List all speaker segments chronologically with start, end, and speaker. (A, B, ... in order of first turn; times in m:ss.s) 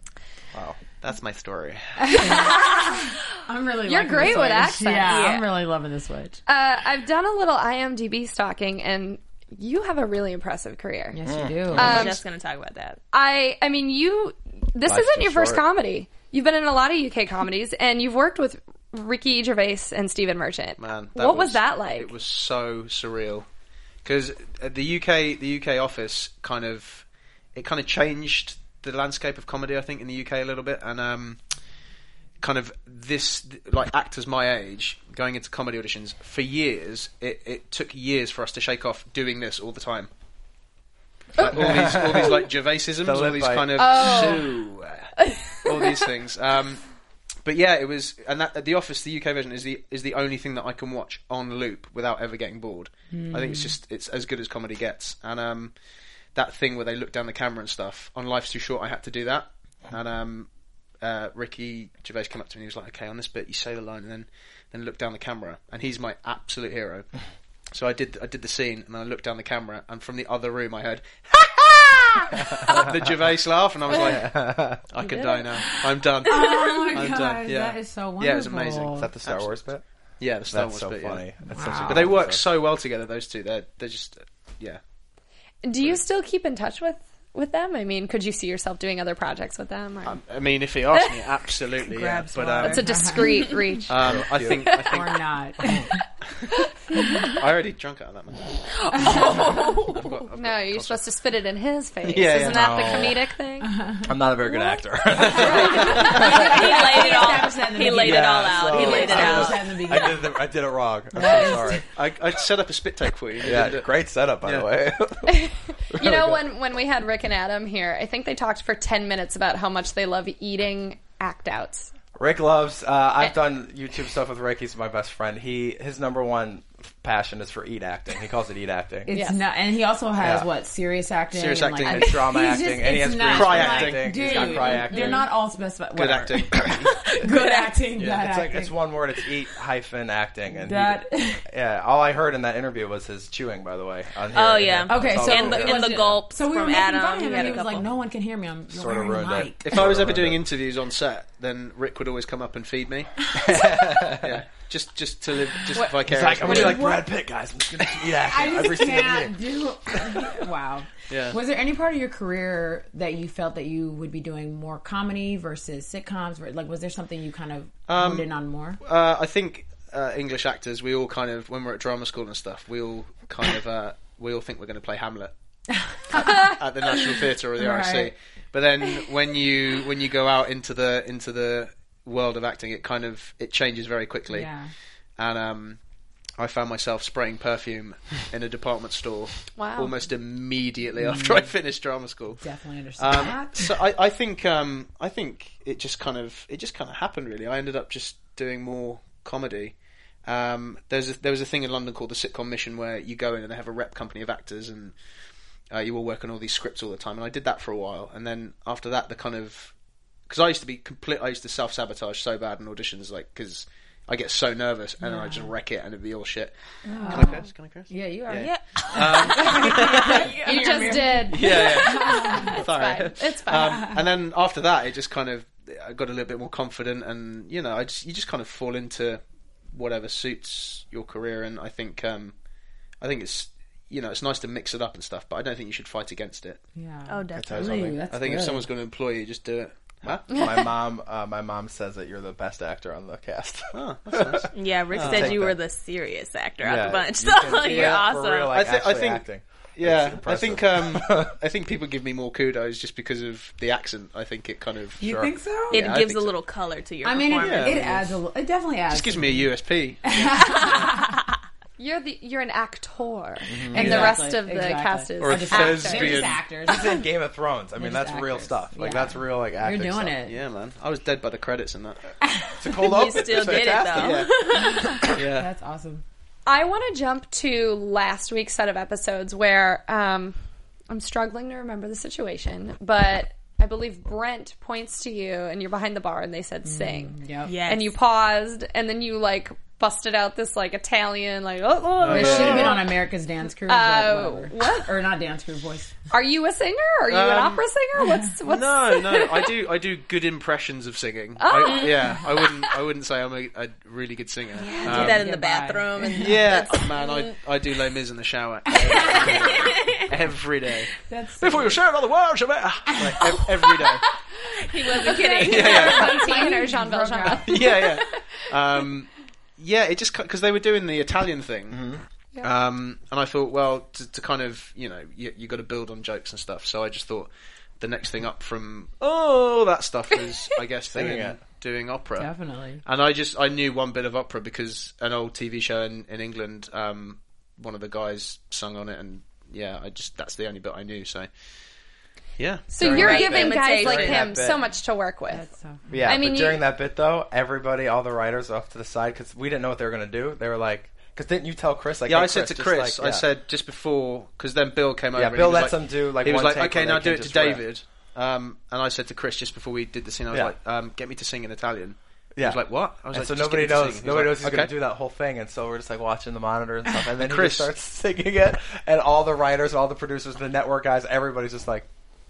0:01.0-0:02.3 A
0:02.0-0:06.4 B
0:02.3-0:03.0 C
0:03.8-0:05.3 C
0:05.1-0:05.5 D
0:06.5-0:11.2 C
0:11.1-0:12.0 B
0:11.2-0:12.2 E
0:11.7-0:12.2 C
0:11.8-0:13.0 D
0:13.1-0:22.1 C
0:14.9-0:15.6 E
0:20.8-0:23.5 A
0:24.0-0:31.4 A
0:32.4-0:40.1 A
0:41.4-0:45.1 A
0:41.4-0:42.4 C
0:41.4-0:42.5 E
0:43.0-0:44.3 E
0:43.8-0:44.5 C
0:45.2-0:46.1 C
0:45.6-0:46.8 A
0:47.4-0:55.8 A
0:53.1-0:53.8 B
0:56.4-1:00.5 A
1:01.0-1:07.1 A
1:07.7-1:19.6 A
1:12.5-1:12.9 E
1:13.9-1:14.8 E
1:15.0-1:15.8 C
1:16.2-1:19.1 B
1:19.0-1:19.8 E
1:20.2-1:21.2 A
1:20.5-1:22.4 E
1:21.5-1:22.1 B
1:21.8-1:24.8 A
1:25.6-1:30.2 C
1:30.0-1:33.0 A
1:30.9-1:31.2 C
1:31.9-1:33.6 D
1:32.5-1:33.6 B
1:32.6-1:34.9 C
1:33.9-1:35.2 A
1:33.9-1:34.7 E
1:34.7-1:36.0 B
1:36.9-1:37.3 C
1:37.3-1:41.1 A
1:38.8-1:43.8 C
1:39.0-1:39.9 B
1:42.0-1:42.8 A
1:42.4-1:43.2 E
1:43.6-1:44.1 B
1:44.0-1:46.7 E
1:44.5-1:47.1 C
1:45.2-1:50.4 B
1:45.4-1:46.2 A
1:46.0-1:49.7 D
1:48.0-1:51.9 E
1:49.2-1:49.5 A
1:51.1-1:51.8 B
1:51.9-1:53.9 A
1:53.4-1:56.4 E
1:54.4-1:54.7 A
1:55.3-2:01.9 C
2:02.2-2:09.1 E
2:09.1-2:18.8 B
2:09.1-2:09.4 C
2:10.2-2:10.5 E
2:11.3-2:12.3 A
2:11.8-2:15.2 E
2:13.3-2:14.8 A
2:16.0-2:17.0 A
2:17.3-2:17.7 D
2:18.0-2:26.2 E
2:20.5-2:21.4 B
2:24.3-2:27.9 D
2:24.9-2:29.7 B
2:28.7-2:30.4 E
2:29.6-2:33.6 A
2:33.3-2:34.4 E
2:34.1-2:36.9 A
2:35.8-2:37.0 C
2:36.0-2:39.4 E
2:38.1-2:48.8 B
2:39.9-2:40.3 E
2:41.1-2:41.4 A
2:47.9-2:48.3 A
2:48.8-2:55.3 A
2:55.8-2:56.5 B
2:56.2-2:56.6 C
2:56.4-3:04.5 A
2:57.6-2:58.1 B
3:04.3-3:04.7 B
3:05.2-3:05.8 A
3:06.4-3:12.4 A
3:09.6-3:10.0 C
3:11.0-3:11.5 B
3:12.4-3:13.8 B
3:13.0-3:25.0 A
3:25.7-3:29.7 A
3:30.3-3:36.6 A
3:35.0-3:35.5 B
3:36.9-3:42.6 B
3:37.1-3:37.4 C
3:37.1-3:40.4 A
3:38.3-3:40.6 D
3:40.3-3:44.0 C
3:41.3-3:52.4 A
3:53.0-3:56.6 A
3:56.8-3:58.7 B
3:57.1-3:58.0 D
3:57.3-3:58.0 E
3:58.1-4:00.3 A
4:00.0-4:05.6 E
4:00.3-4:00.7 C
4:03.7-4:05.4 A
4:04.5-4:08.6 D
4:06.6-4:11.4 E
4:07.5-4:09.2 A
4:09.8-4:16.4 A
4:15.0-4:16.0 B
4:15.0-4:15.3 E
4:15.7-4:18.0 D
4:17.0-4:19.5 B
4:17.4-4:18.2 A
4:18.9-4:21.0 A
4:20.0-4:21.2 B
4:21.8-4:26.3 C
4:23.5-4:24.2 E
4:23.7-4:27.0 B
4:23.8-4:24.1 A
4:25.2-4:26.4 A
4:26.6-4:30.2 E
4:27.8-4:30.4 B
4:30.2-4:32.1 A
4:32.3-4:32.7 B
4:32.6-4:34.3 E
4:32.7-4:35.0 D
4:33.9-4:35.5 A
4:34.5-4:36.0 B
4:36.5-4:40.4 C
4:40.9-4:52.8 C
4:46.6-4:47.5 B
4:47.5-4:47.9 D
4:52.0-4:52.9 A
4:52.0-4:55.9 B
4:53.7-4:54.9 C
4:56.1-4:59.5 C
4:57.1-4:57.6 A
4:58.0-4:58.4 B
4:58.5-5:05.3 A
5:01.4-5:02.7 C
5:01.6-5:02.0 D
5:04.6-5:07.3 D
5:04.6-5:06.4 B
5:06.1-5:14.1 A
5:08.7-5:09.5 B
5:09.1-5:10.0 D
5:11.0-5:11.8 B
5:12.9-5:13.5 B
5:14.6-5:16.2 D
5:15.0-5:17.6 B
5:15.0-5:18.0 C
5:15.4-5:16.3 A
5:17.4-5:32.3 A
5:21.7-5:22.0 E
5:30.9-5:31.4 E
5:32.2-5:32.8 B
5:32.8-5:41.3 A
5:42.4-5:44.0 A
5:42.7-5:45.5 C
5:42.8-5:44.6 E
5:42.8-5:44.4 D
5:45.3-5:45.9 B
5:45.9-5:53.2 E
5:46.0-5:46.6 C
5:52.1-6:04.7 A
5:55.2-5:57.6 E
6:03.1-6:11.9 E
6:07.2-6:07.7 A